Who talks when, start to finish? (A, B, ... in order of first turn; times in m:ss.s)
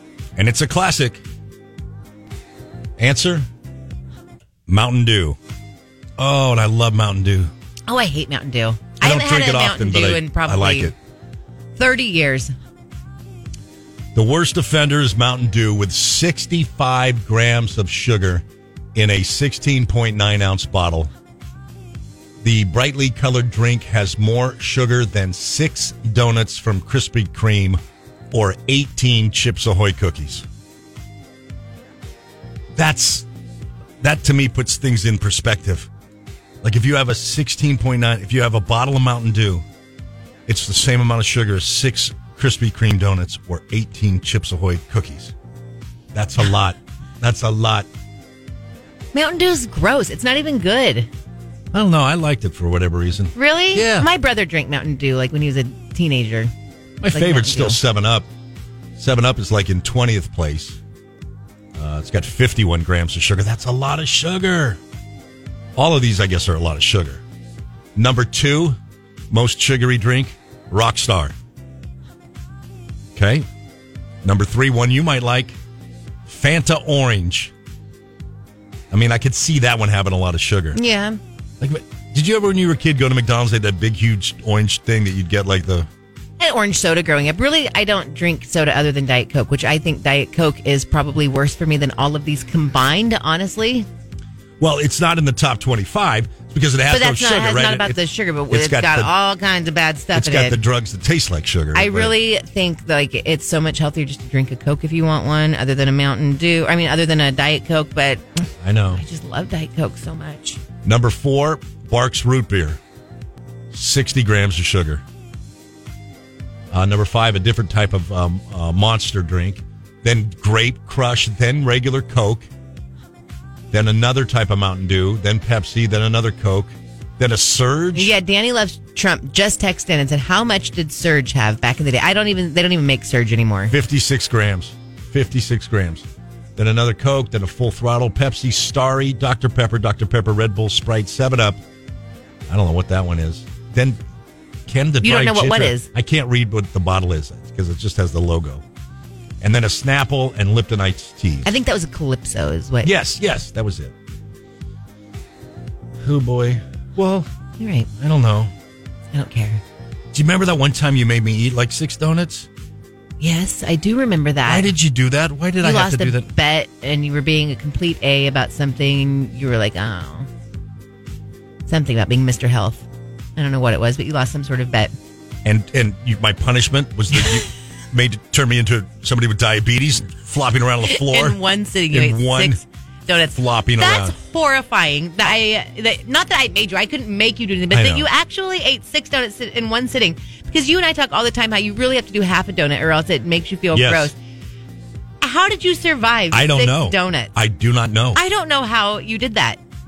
0:00.4-0:01.2 A
0:03.0-0:03.5 A
0:04.7-0:05.4 A
0:06.2-0:07.5 A
0:07.9-0:10.9 B
0:09.0-0:10.9 A
0:11.8-0:12.5 B
0:14.1-0:18.4 A
0:18.9-0:21.1 A
0:22.4-0:27.8 A
0:28.3-0:30.4 A
0:32.8-0:33.3 A
0:34.0-0:35.9 A
0:36.6-0:39.6 A
0:40.5-0:45.3 A
0:46.1-0:47.9 A
0:49.1-0:51.1 B
0:51.7-0:54.1 A
0:53.3-0:56.5 B
0:57.0-0:58.3 A
0:57.1-0:57.8 B
0:59.0-1:00.8 A
1:01.8-1:04.8 A
1:05.8-1:07.2 A
1:08.0-1:08.8 A
1:09.3-1:11.3 A
1:13.2-1:13.4 A
1:14.2-1:15.6 A
1:16.2-1:17.5 A
1:18.9-1:20.8 A
1:20.7-1:21.2 B
1:21.6-1:25.9 A
1:26.4-1:33.9 B
1:34.6-1:39.1 A
1:36.9-1:40.6 B
1:40.1-1:42.2 A
1:41.7-1:50.6 B
1:48.6-1:49.0 A
1:50.8-1:52.8 A
1:53.7-1:55.0 A
1:56.7-2:02.5 A
2:03.7-2:08.1 A
2:07.9-2:13.7 B
2:13.7-2:16.0 A
2:16.6-2:21.6 A
2:22.5-2:24.0 A
2:24.7-2:28.6 A
2:25.0-2:25.9 B
2:29.4-2:31.5 A
2:31.4-2:32.9 B
2:32.8-2:33.9 A
2:36.0-2:37.3 A
2:37.6-2:37.9 B
2:38.0-2:38.5 A
2:39.1-2:39.6 B
2:40.1-2:42.5 A
2:43.2-2:44.7 B
2:44.4-2:46.3 A
2:45.6-2:50.3 B
2:51.6-2:54.9 B
2:55.4-3:01.4 A
3:00.8-3:14.2 B
3:01.9-3:02.6 A
3:03.3-3:04.1 A
3:07.7-3:08.1 A
3:13.7-3:14.1 A
3:15.2-3:17.4 B
3:16.3-3:18.2 A
3:18.1-3:19.6 B